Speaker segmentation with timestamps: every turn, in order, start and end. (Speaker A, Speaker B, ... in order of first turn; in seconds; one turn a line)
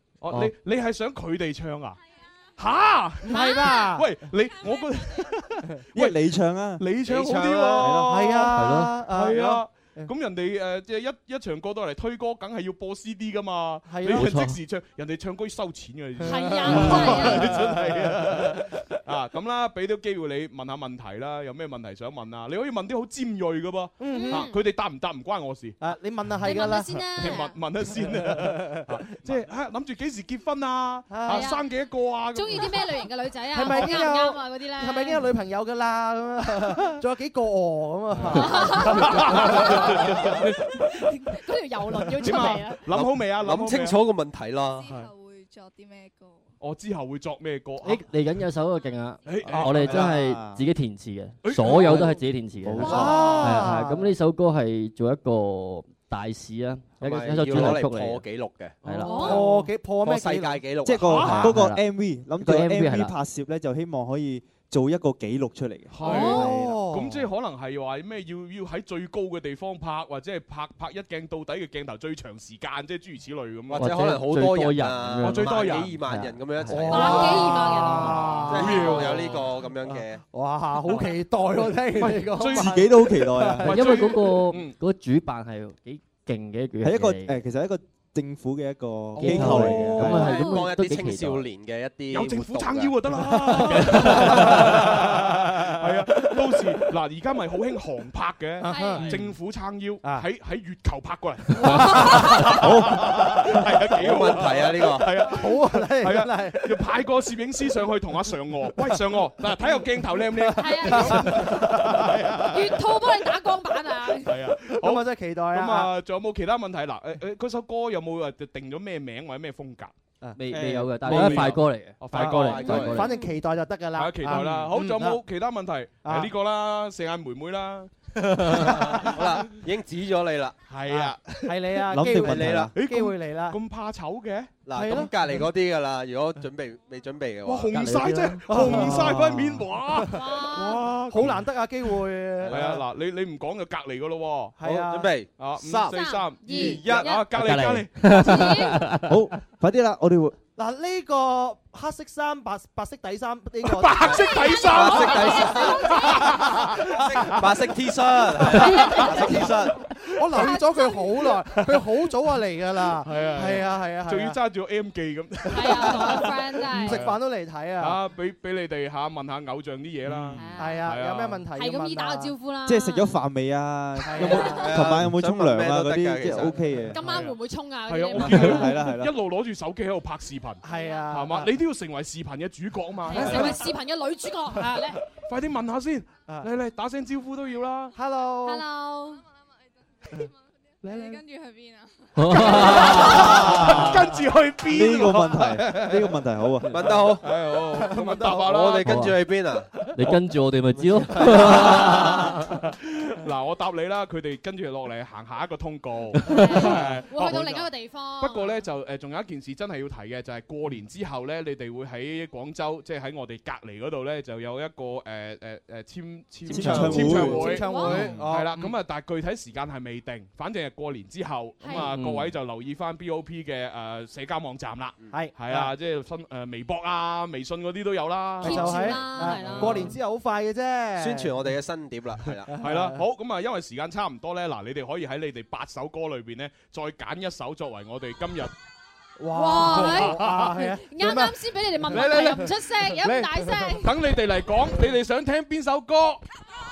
Speaker A: 0.2-2.0
Speaker B: 2.0-2.8
Speaker A: 2.6-25.8
Speaker C: 3.2-4.1
Speaker D: 3.3-3.9
Speaker B: 4.5-5.3
Speaker E: 5.9-6.9
Speaker F: 7.0-7.8
Speaker C: 7.3-10.1
Speaker E: 7.8-8.4
Speaker G: 8.6-9.0
Speaker C: 13.9-14.3
Speaker G: 14.2-14.6
Speaker C: 16.2-18.5
Speaker D: 16.2-17.6
Speaker C: 24.0-24.5
Speaker D: 24.1-24.6
Speaker C: 25.8-27.1
Speaker D: 26.4-27.6
Speaker A: 27.2-33.0
Speaker C: 28.0-29.3
Speaker C: 31.1-31.6
Speaker D: 31.3-31.7
Speaker D: 32.3-35.3
Speaker C: 33.5-40.0
Speaker A: 33.7-34.0
Speaker A: 38.1-40.4
Speaker D: 38.3-40.4
Speaker D: 41.1-42.8
Speaker A: 42.2-44.0
Speaker F: 42.9-44.9
Speaker B: 44.6-46.5
Speaker A: 46.6-48.0
Speaker G: 47.8-58.3
Speaker B: 48.7-49.3
Speaker A: 49.3-50.1
Speaker E: 49.7-50.6
Speaker A: 51.4-52.2
Speaker E: 51.8-53.5
Speaker C: 52.8-54.1
Speaker A: 52.9-53.7
Speaker F: 57.0-58.8
Speaker G: 58.8-59.4
Speaker A: 58.9-59.3
Speaker D: 59.0-59.6
Speaker C: 59.2-60.6
Speaker F: 60.0-61.2
Speaker E: 60.8-66.3
Speaker A: 61.1-61.6
Speaker G: 61.1-61.9
Speaker C: 61.2-61.5
Speaker G: 62.4-63.1
Speaker A: 65.9-73.9
Speaker D: 66.0-66.5
Speaker C: 66.0-67.3
Speaker F: 73.7-77.2
Speaker G: 73.8-77.0
Speaker A: 75.2-76.0
Speaker C: 76.7-79.1
Speaker D: 76.9-78.3
Speaker A: 77.0-79.6
Speaker F: 78.5-80.2
Speaker C: 79.9-84.1
Speaker A: 81.9-84.8
Speaker E: 82.4-84.0
Speaker G: 83.7-87.4
Speaker E: 86.8-90.3
Speaker G: 89.2-91.5
Speaker A: 89.2-90.4
Speaker D: 90.2-90.7
Speaker F: 90.3-93.0
Speaker A: 92.1-112.8
Speaker C: 93.2-95.5
Speaker G: 93.6-94.7
Speaker C: 98.6-99.1
Speaker D: 98.7-99.1
Speaker D: 101.6-102.6
Speaker E: 102.6-103.0
Speaker F: 104.0-105.1
Speaker C: 105.2-106.8
Speaker C: 110.2-112.0
Speaker D: 110.6-111.7
Speaker D: 112.5-114.4
Speaker A: 114.2-119.9
Speaker C: 114.6-115.9
Speaker G: 120.4-123.1
Speaker E: 120.5-121.2
Speaker A: 120.5-122.8
Speaker F: 122.1-123.0
Speaker C: 122.8-125.2
Speaker D: 122.9-123.3
Speaker A: 124.0-129.5
Speaker C: 126.0-126.3
Speaker F: 128.9-130.6
Speaker A: 130.7-134.6
Speaker C: 130.9-133.6
Speaker E: 131.9-132.7
Speaker F: 132.2-132.7
Speaker F: 134.7-137.9
Speaker C: 134.7-135.1
Speaker A: 137.4-144.6
Speaker G: 137.7-139.0
Speaker C: 138.5-140.2
Speaker D: 140.1-140.8
Speaker C: 141.1-142.8
Speaker C: 144.6-145.1
Speaker F: 144.6-146.0
Speaker A: 145.4-148.1
Speaker D: 145.9-147.3
Speaker F: 146.5-147.1
Speaker G: 147.3-149.4
Speaker D: 148.0-148.9
Speaker E: 149.1-150.4
Speaker C: 150.6-154.1
Speaker A: 153.6-157.7
Speaker F: 154.1-155.7
Speaker D: 154.1-156.8
Speaker C: 155.9-157.0
Speaker F: 157.0-159.8
Speaker A: 158.4-160.5
Speaker D: 158.5-159.4
Speaker C: 158.5-159.6
Speaker C: 160.2-164.4
Speaker D: 160.3-161.1
Speaker A: 163.0-167.2
Speaker D: 163.1-163.3
Speaker D: 165.5-167.0
Speaker C: 165.7-168.0
Speaker A: 167.8-171.4
Speaker D: 170.3-170.9
Speaker C: 170.6-172.3
Speaker D: 171.6-173.2
Speaker E: 172.7-177.0
Speaker C: 174.1-174.8
Speaker D: 174.2-174.7
Speaker F: 174.3-176.6
Speaker D: 176.9-178.9
Speaker A: 176.9-183.7
Speaker E: 178.2-179.1
Speaker C: 180.6-181.5
Speaker D: 180.7-181.1
Speaker D: 183.1-185.0
Speaker C: 183.1-183.7
Speaker A: 184.6-188.0
Speaker C: 187.9-188.7
Speaker D: 188.4-189.2
Speaker B: 189.0-192.4
Speaker C: 190.8-191.2
Speaker G: 192.2-194.0
Speaker A: 192.4-196.2
Speaker D: 192.5-193.5
Speaker E: 193.2-197.0
Speaker F: 196.7-197.2
Speaker A: 197.2-199.1
Speaker C: 197.8-198.5
Speaker F: 198.4-199.8
Speaker G: 198.8-199.2
Speaker G: 199.9-202.5
Speaker A: 201.0-230.0
Speaker F: 201.1-201.9
Speaker G: 206.3-206.7
Speaker D: 206.3-208.6
Speaker E: 216.5-217.6
Speaker C: 216.5-218.7
Speaker D: 217.4-218.0
Speaker D: 221.6-221.9
Speaker G: 221.8-222.3
Speaker C: 225.1-225.7
Speaker C: 228.4-231.5
Speaker D: 228.4-230.0
Speaker F: 231.0-232.6
Speaker C: 232.5-233.0
Speaker A: 232.6-238.5
Speaker C: 239.2-241.3
Speaker D: 239.3-244.0
Speaker A: 239.6-240.5
Speaker A: 241.9-246.2